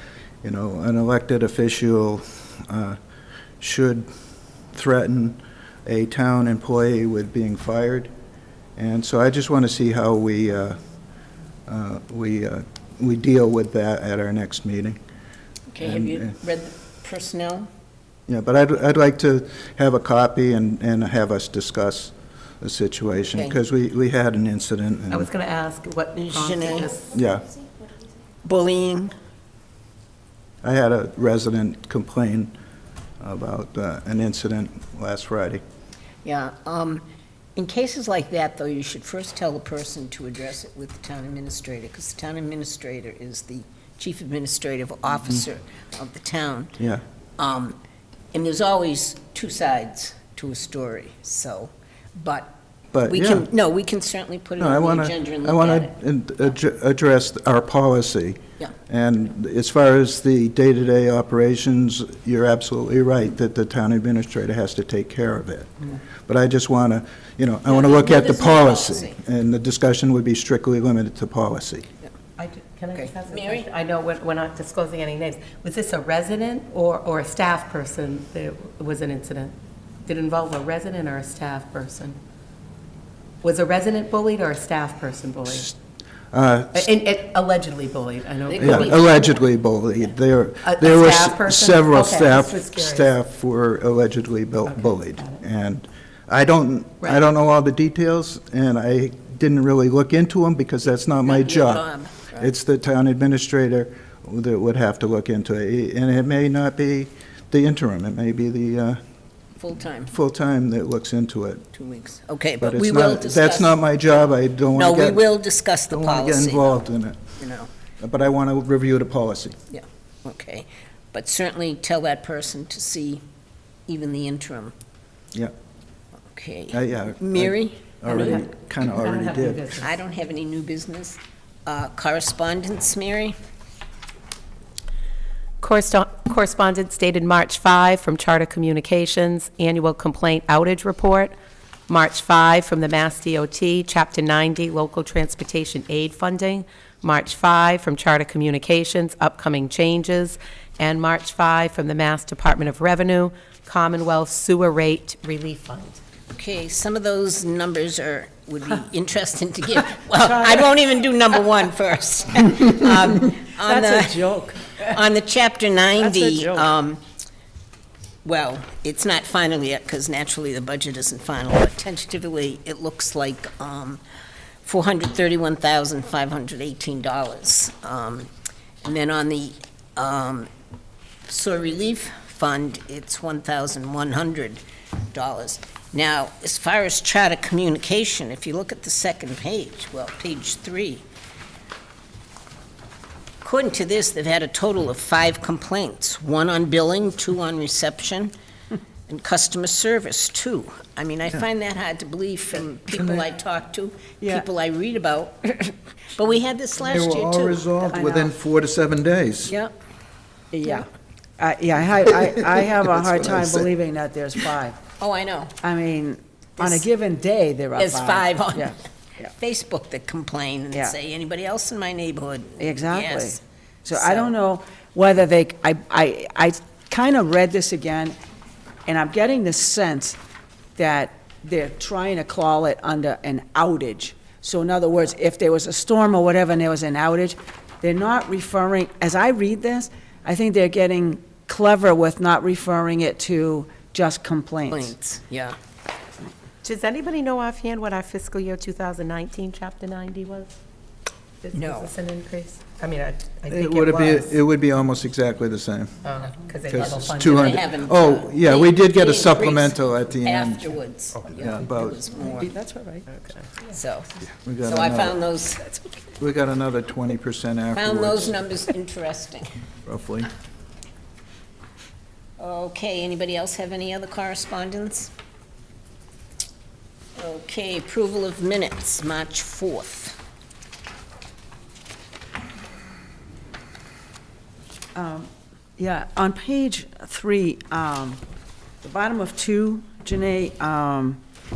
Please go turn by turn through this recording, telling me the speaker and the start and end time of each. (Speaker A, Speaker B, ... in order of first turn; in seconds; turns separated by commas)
Speaker A: 0.4-3.0, Speaker A: 3.6-4.0, Speaker A: 4.7-8.1, Speaker A: 8.8-10.8, Speaker A: 11.7-15.0, Speaker B: 15.7-17.7, Speaker A: 15.8-16.3, Speaker A: 18.3-25.3, Speaker C: 25.1-27.1, Speaker B: 26.1-26.9, Speaker A: 27.1-27.4, Speaker B: 28.4-29.1, Speaker A: 30.6-32.5, Speaker A: 33.2-35.6, Speaker B: 36.2-37.0, Speaker B: 37.5-46.8, Speaker B: 47.4-47.8, Speaker B: 48.3-52.5, Speaker A: 52.9-53.5, Speaker B: 53.1-55.9, Speaker A: 54.6-71.9, Speaker B: 67.7-69.2, Speaker C: 72.4-79.5, Speaker B: 72.9-73.7, Speaker C: 80.0-82.2, Speaker C: 83.4-85.7, Speaker A: 85.5-85.7, Speaker A: 86.3-86.9, Speaker C: 86.7-89.2, Speaker B: 88.5-89.5, Speaker A: 88.6-101.8, Speaker C: 90.6-93.1, Speaker C: 94.7-95.4, Speaker B: 101.2-102.5, Speaker A: 102.3-109.0, Speaker B: 109.6-110.1, Speaker A: 110.1-111.6, Speaker B: 111.7-116.8, Speaker A: 112.6-115.3, Speaker A: 115.9-117.2, Speaker B: 117.4-117.7, Speaker A: 118.0-119.6, Speaker B: 119.7-123.2, Speaker B: 123.9-124.7, Speaker B: 126.3-128.4, Speaker A: 126.7-129.7, Speaker C: 128.1-129.9, Speaker B: 129.8-133.3, Speaker C: 135.6-141.3, Speaker C: 141.9-156.0, Speaker B: 156.3-167.0, Speaker D: 163.6-164.8, Speaker D: 166.0-166.7, Speaker B: 168.2-174.0, Speaker B: 174.6-178.3, Speaker B: 178.8-180.5, Speaker B: 181.3-191.1, Speaker B: 193.4-198.3, Speaker B: 199.1-207.6, Speaker A: 202.9-203.2, Speaker A: 206.8-209.5, Speaker D: 207.9-208.3, Speaker B: 209.5-209.7, Speaker D: 210.5-214.8, Speaker A: 212.8-213.7, Speaker B: 215.0-215.6, Speaker D: 215.6-219.3, Speaker B: 216.6-216.8, Speaker B: 217.8-224.3, Speaker D: 222.6-228.2, Speaker D: 228.8-230.2, Speaker D: 230.8-244.9, Speaker B: 244.7-245.6, Speaker C: 246.6-250.6, Speaker C: 251.4-254.4, Speaker B: 251.5-251.9, Speaker A: 253.5-256.0, Speaker C: 256.0-257.6, Speaker A: 256.7-262.0, Speaker B: 256.8-262.5, Speaker D: 262.3-263.3, Speaker B: 263.7-264.1, Speaker A: 264.3-265.2, Speaker B: 264.6-265.6, Speaker A: 266.2-268.4, Speaker B: 267.7-269.5, Speaker A: 269.9-270.3, Speaker B: 272.4-275.1, Speaker B: 277.2-280.2, Speaker D: 284.9-288.2, Speaker D: 288.8-291.2